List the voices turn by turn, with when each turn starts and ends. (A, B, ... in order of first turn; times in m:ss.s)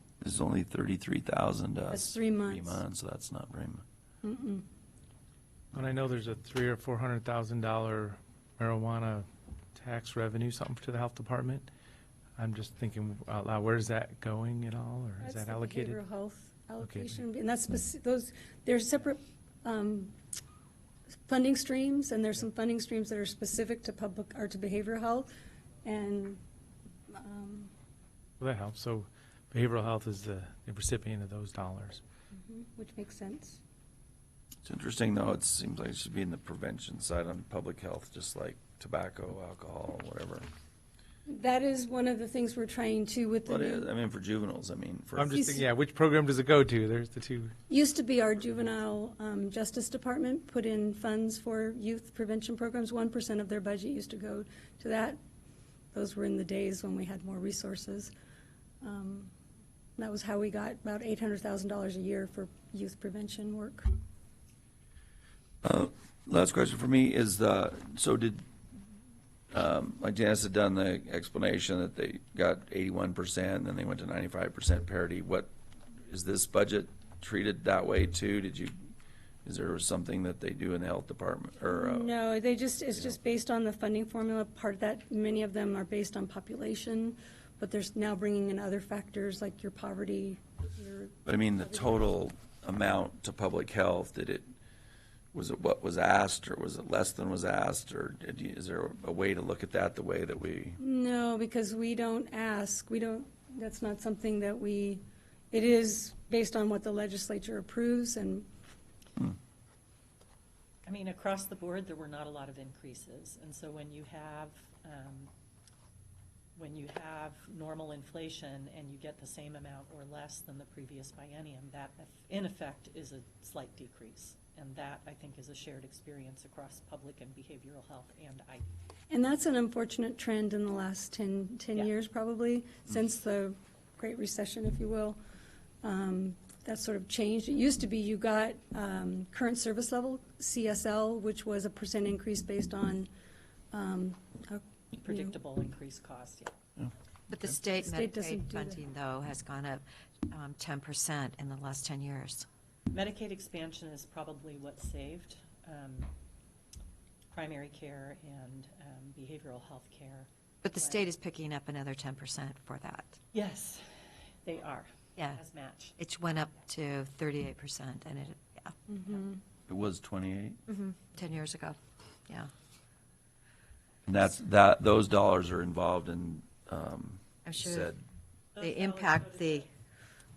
0:00.2-0:03.8 A
0:01.9-0:02.8 B
0:04.2-0:04.6 B
0:05.7-0:11.7 C
0:12.4-0:16.0 C
0:15.2-0:20.2 B
0:16.8-0:17.2 C
0:21.3-0:25.3 B
0:25.8-0:26.4 B
0:27.1-0:27.7 B
0:28.4-0:32.0 C
0:32.4-0:33.6 B
0:34.6-0:40.5 A
0:41.2-0:43.9 B
0:43.4-0:45.6 A
0:45.2-0:47.5 C
0:45.4-0:45.6 B
0:47.7-0:55.2 B
0:55.9-0:58.1 B
0:58.8-0:59.3 B
1:00.0-1:03.9 B
1:05.6-1:08.4 A
1:09.5-1:15.5 A
1:16.1-1:18.7 A
1:19.4-1:22.1 A
1:21.6-1:31.9 B
1:31.2-1:34.5 A
1:35.3-1:40.8 A
1:40.8-1:48.5 B
1:50.8-1:55.3 D
1:56.6-2:08.8 D
2:09.1-2:15.2 B
2:15.8-2:23.1 B
2:23.7-2:25.3 B
2:25.0-2:26.5 D
2:27.3-2:32.5 E
2:27.9-2:28.8 B
2:32.9-2:36.1 D
2:37.3-2:41.1 D
2:40.6-2:43.2 E
2:43.3-2:43.8 D
2:44.4-2:46.0 D
2:46.0-2:48.9 E
2:49.7-2:50.6 A
2:50.7-2:52.5 E
2:54.1-2:58.0 A
2:57.4-2:57.9 E
2:58.6-2:59.6 D
2:58.6-2:59.7 E